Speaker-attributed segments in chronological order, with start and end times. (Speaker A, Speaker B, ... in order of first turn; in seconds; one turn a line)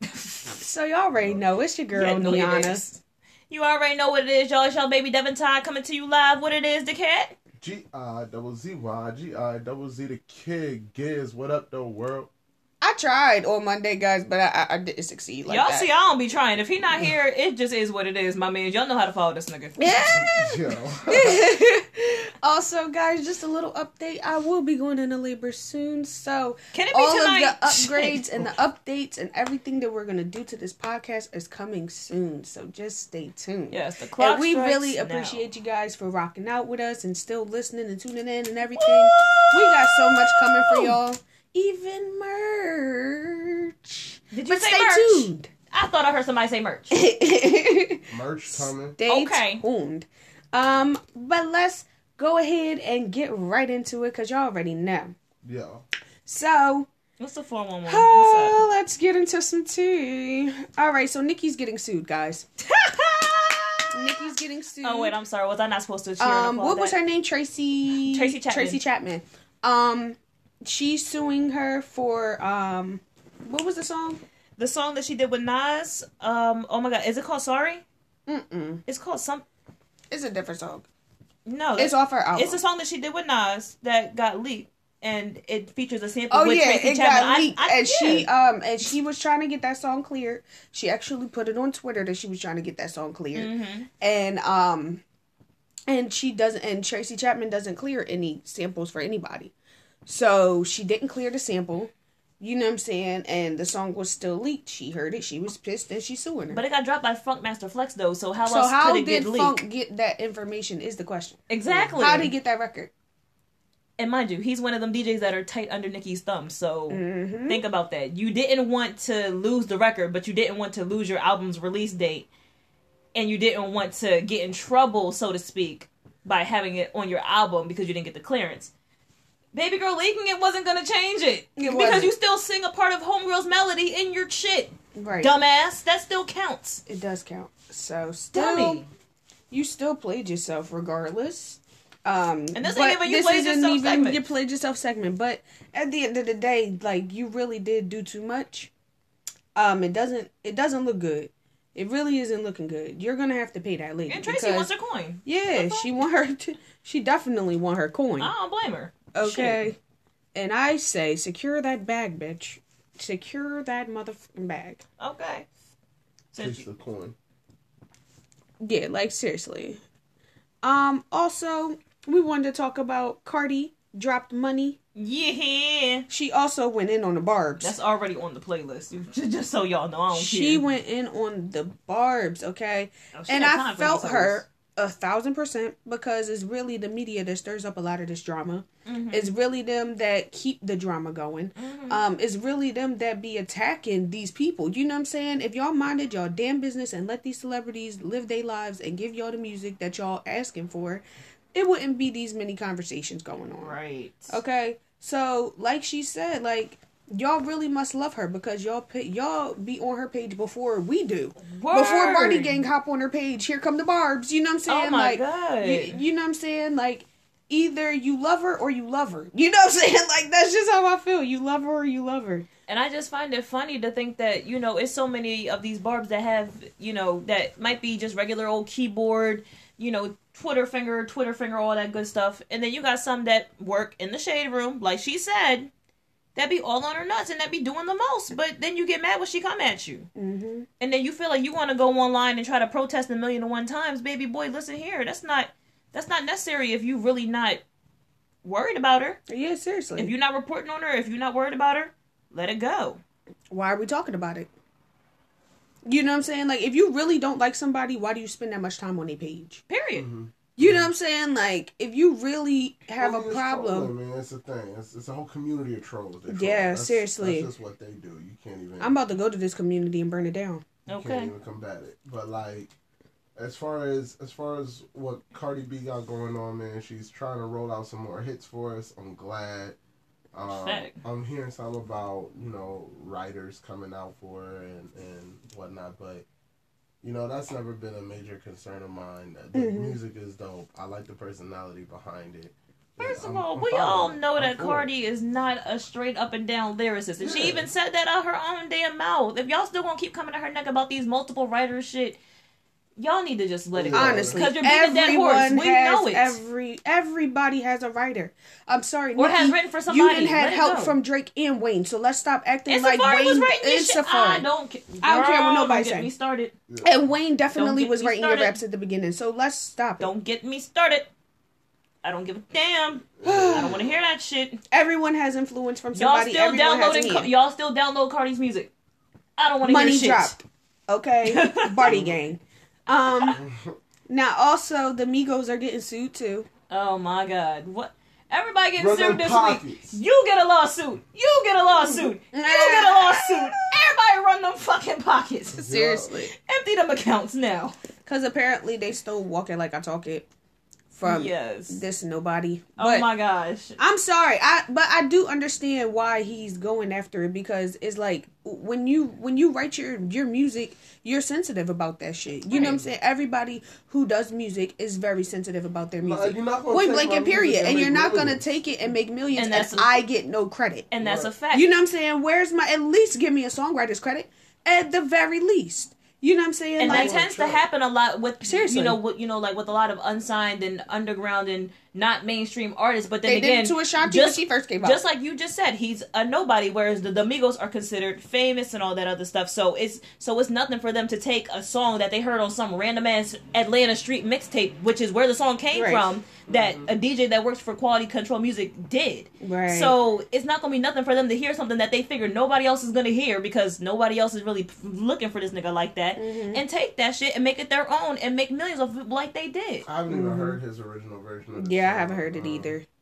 Speaker A: 0.6-2.8
Speaker B: 1.2-1.5
Speaker C: 1.9-7.3
Speaker B: 7.6-12.3
Speaker A: 12.8-15.9
Speaker C: 15.4-19.8
Speaker A: 19.8-20.6
Speaker B: 20.1-21.4
Speaker A: 21.1-45.5
Speaker C: 26.7-28.2
Speaker C: 33.7-35.5
Speaker C: 39.1-39.4
Speaker C: 40.6-40.9
Speaker C: 44.3-46.9
Speaker A: 46.9-55.1
Speaker B: 48.1-49.0
Speaker C: 49.1-49.6
Speaker B: 55.4-55.8
Speaker A: 56.2-56.9
Speaker C: 57.2-58.6
Speaker A: 57.9-62.5
Speaker C: 62.7-64.3
Speaker A: 63.9-65.1
Speaker C: 64.8-67.0
Speaker A: 66.2-74.2
Speaker C: 67.9-68.8
Speaker C: 74.6-77.8
Speaker A: 78.3-78.8
Speaker C: 78.9-79.4
Speaker A: 80.1-80.9
Speaker C: 81.5-88.3
Speaker A: 81.8-82.6
Speaker A: 86.3-95.0
Speaker C: 93.3-93.9
Speaker A: 95.9-99.5
Speaker A: 100.0-106.6
Speaker C: 106.5-109.6
Speaker A: 108.4-112.9
Speaker C: 111.5-112.3
Speaker C: 114.0-122.3
Speaker A: 116.9-117.6
Speaker C: 123.1-128.7
Speaker C: 129.5-136.8
Speaker A: 131.6-132.1
Speaker A: 134.9-135.3
Speaker A: 136.8-138.9
Speaker C: 138.3-138.9
Speaker A: 139.5-148.7
Speaker C: 142.5-144.2
Speaker A: 149.6-154.7
Speaker C: 154.1-155.9
Speaker A: 155.2-158.3
Speaker C: 158.2-159.7
Speaker A: 159.1-159.8
Speaker A: 160.3-164.8
Speaker C: 165.0-165.5
Speaker C: 166.3-166.7
Speaker B: 166.4-167.2
Speaker A: 168.6-169.8
Speaker A: 170.6-174.8
Speaker C: 174.9-176.1
Speaker A: 176.1-177.8
Speaker C: 177.6-180.6
Speaker A: 180.1-201.0
Speaker C: 183.1-184.4
Speaker C: 188.8-189.3
Speaker C: 191.6-192.0
Speaker A: 201.5-203.7
Speaker C: 203.6-204.4
Speaker A: 204.3-222.4
Speaker C: 211.4-212.6
Speaker C: 214.7-216.0
Speaker C: 222.7-235.7
Speaker C: 236.3-240.1
Speaker A: 240.2-240.7
Speaker C: 240.8-247.6
Speaker C: 248.4-249.2
Speaker A: 249.3-250.1
Speaker C: 249.9-253.0
Speaker A: 253.5-254.5
Speaker A: 255.8-259.6
Speaker C: 259.7-260.1
Speaker B: 259.9-260.9
Speaker A: 260.6-263.9
Speaker B: 263.0-268.9
Speaker A: 266.3-267.5
Speaker A: 268.8-270.6
Speaker C: 270.9-271.3
Speaker B: 270.9-272.7
Speaker B: 273.4-279.8
Speaker B: 280.3-286.2
Speaker C: 280.5-281.0
Speaker B: 287.0-294.9
Speaker A: 289.5-289.9
Speaker C: 293.0-302.2
Speaker B: 297.2-297.7
Speaker C: 303.0-306.4
Speaker B: 303.7-304.4
Speaker A: 303.9-314.5
Speaker C: 309.1-310.9
Speaker C: 312.7-316.5
Speaker A: 315.0-316.1
Speaker B: 316.7-317.1
Speaker A: 316.8-320.1
Speaker C: 317.5-318.6
Speaker C: 320.0-321.1
Speaker C: 322.0-324.6
Speaker A: 323.2-323.8
Speaker B: 323.2-324.0
Speaker A: 324.7-327.3
Speaker C: 325.9-328.7
Speaker C: 329.4-330.3
Speaker A: 329.6-333.4
Speaker C: 331.2-331.9
Speaker B: 331.8-332.2
Speaker B: 333.3-333.7
Speaker A: 334.1-336.5
Speaker C: 336.7-345.6
Speaker B: 338.8-340.0
Speaker A: 341.8-343.6
Speaker A: 345.5-346.3
Speaker B: 345.6-346.1
Speaker C: 346.4-347.8
Speaker A: 348.0-350.3
Speaker A: 350.9-353.1
Speaker C: 351.0-351.8
Speaker C: 352.8-353.8
Speaker A: 353.8-370.9
Speaker C: 362.5-362.9
Speaker B: 366.0-368.4
Speaker C: 369.3-369.9
Speaker C: 370.9-371.7
Speaker B: 371.0-371.3
Speaker A: 371.5-377.2
Speaker C: 376.8-409.9
Speaker B: 376.8-377.6
Speaker A: 378.4-379.0
Speaker A: 383.2-385.0
Speaker A: 395.7-396.2
Speaker B: 396.5-396.9
Speaker A: 399.4-399.9
Speaker A: 406.2-406.6
Speaker B: 409.9-412.8
Speaker A: 410.1-410.6
Speaker A: 411.6-412.9